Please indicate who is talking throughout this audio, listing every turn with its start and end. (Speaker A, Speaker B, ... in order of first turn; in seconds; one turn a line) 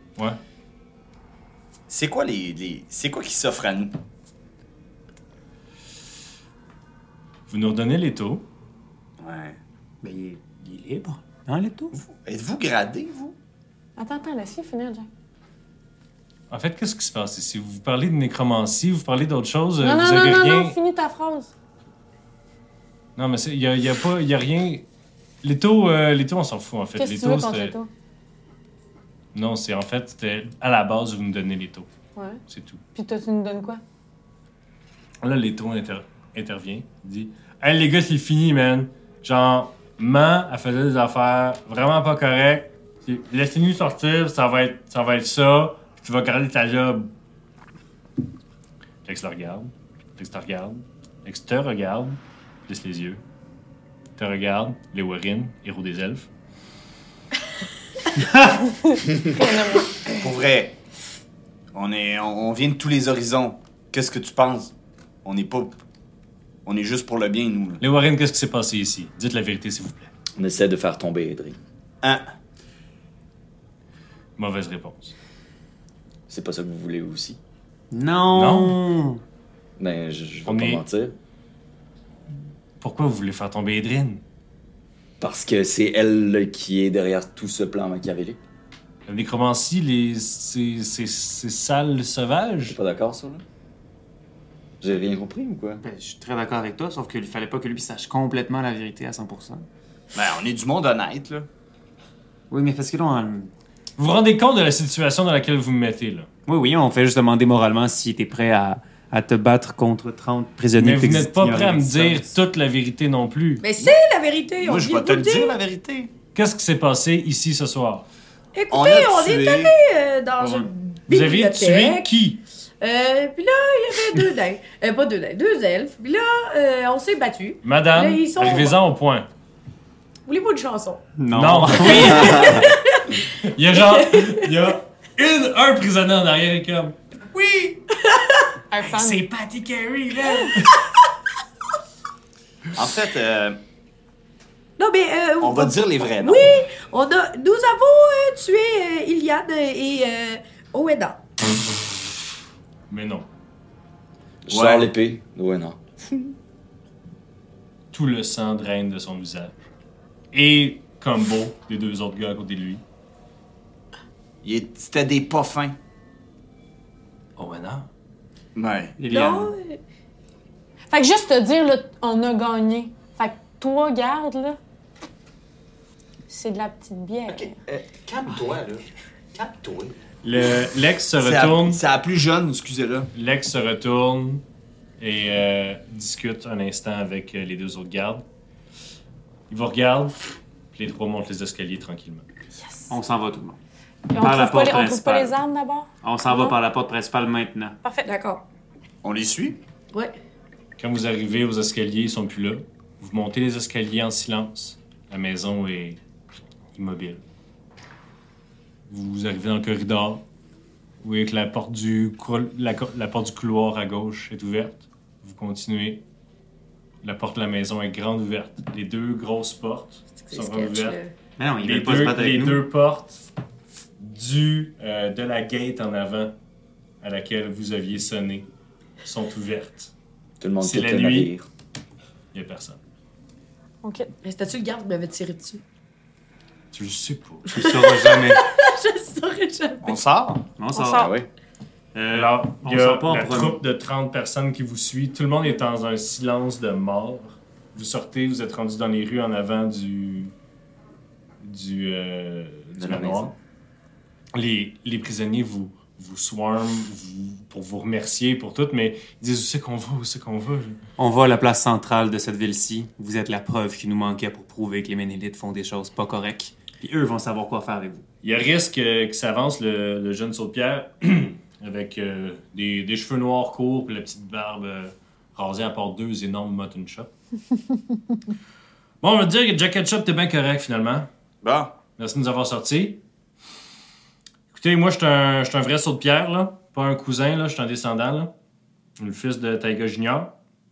Speaker A: 1.9-4.0
Speaker B: 7.5-8.4
Speaker A: 9.2-9.6
Speaker C: 10.0-11.9
Speaker A: 12.0-13.3
Speaker D: 14.0-15.1
Speaker B: 16.5-20.8
Speaker D: 19.8-21.5
Speaker B: 23.1-24.8
Speaker B: 25.4-27.8
Speaker D: 27.0-27.9
Speaker B: 29.3-31.9
Speaker D: 32.1-32.4
Speaker B: 32.5-32.8
Speaker D: 32.9-33.8
Speaker B: 35.2-47.1
Speaker B: 49.0-53.2
Speaker B: 54.2-56.3
Speaker D: 58.7-60.0
Speaker A: 60.1-60.8
Speaker A: 61.7-64.7
Speaker A: 65.2-65.7
Speaker A: 66.7-67.8
Speaker B: 67.8-70.1
Speaker E: 70.3-71.6
Speaker A: 72.0-72.3
Speaker B: 74.4-75.2
Speaker E: 76.3-77.4
Speaker C: 77.9-79.2
Speaker B: 78.3-78.8
Speaker E: 79.8-81.1
Speaker B: 80.5-80.8
Speaker B: 82.8-84.2
Speaker E: 85.2-88.4
Speaker B: 89.1-92.8
Speaker E: 92.7-93.4
Speaker E: 94.8-95.8
Speaker C: 95.8-99.6
Speaker A: 100.1-101.5
Speaker C: 102.5-103.5
Speaker B: 104.0-106.3
Speaker C: 106.5-112.3
Speaker B: 110.8-113.7
Speaker F: 113.6-115.5
Speaker A: 114.6-116.1
Speaker B: 116.3-118.0
Speaker F: 118.5-122.1
Speaker A: 118.7-119.7
Speaker B: 120.4-122.4
Speaker F: 122.8-128.8
Speaker B: 127.6-129.3
Speaker F: 130.2-131.1
Speaker C: 131.2-132.7
Speaker B: 131.3-132.7
Speaker F: 132.3-133.2
Speaker B: 133.4-137.8
Speaker F: 133.7-134.5
Speaker F: 138.0-138.4
Speaker D: 138.7-139.2
Speaker B: 138.8-140.7
Speaker A: 142.8-143.6
Speaker F: 144.8-151.2
Speaker A: 145.4-146.6
Speaker B: 152.9-153.3
Speaker E: 154.4-156.0
Speaker A: 154.5-154.9
Speaker B: 157.9-159.5
Speaker B: 160.3-162.8
Speaker A: 164.4-165.8
Speaker B: 167.4-167.9
Speaker A: 168.6-169.0
Speaker C: 169.0-169.5
Speaker F: 169.1-169.8
Speaker D: 170.9-174.6
Speaker D: 176.3-177.6
Speaker A: 177.3-179.9
Speaker B: 180.2-181.8
Speaker A: 181.2-183.1
Speaker B: 183.1-184.4
Speaker B: 185.0-188.2
Speaker B: 189.5-192.2
Speaker C: 192.9-193.6
Speaker D: 194.1-196.6
Speaker C: 194.2-195.4
Speaker C: 196.0-197.8
Speaker D: 197.8-198.1
Speaker F: 198.0-198.4
Speaker A: 199.0-199.6
Speaker B: 200.8-206.0
Speaker B: 206.7-207.2
Speaker B: 208.9-210.2
Speaker B: 211.0-216.0
Speaker B: 217.0-221.0
Speaker F: 220.2-221.1
Speaker C: 221.4-222.7
Speaker B: 221.6-223.2
Speaker B: 224.0-226.3
Speaker B: 227.0-228.5
Speaker B: 229.0-229.9
Speaker E: 230.4-231.5
Speaker B: 230.6-231.3
Speaker B: 232.3-232.8
Speaker D: 233.8-234.1
Speaker F: 234.2-235.6
Speaker B: 236.7-237.5
Speaker F: 237.5-240.0
Speaker C: 237.5-238.4
Speaker A: 239.8-240.4
Speaker C: 240.6-241.1
Speaker D: 240.7-241.1
Speaker E: 240.9-241.3
Speaker C: 241.9-243.6
Speaker B: 242.1-250.3
Speaker B: 251.4-253.3
Speaker E: 252.8-253.3
Speaker B: 254.3-260.8
Speaker C: 261.0-268.0
Speaker B: 268.2-277.1
Speaker B: 279.0-281.1
Speaker A: 281.4-281.7
Speaker B: 281.9-283.0
Speaker B: 284.5-288.3
Speaker B: 289.0-290.3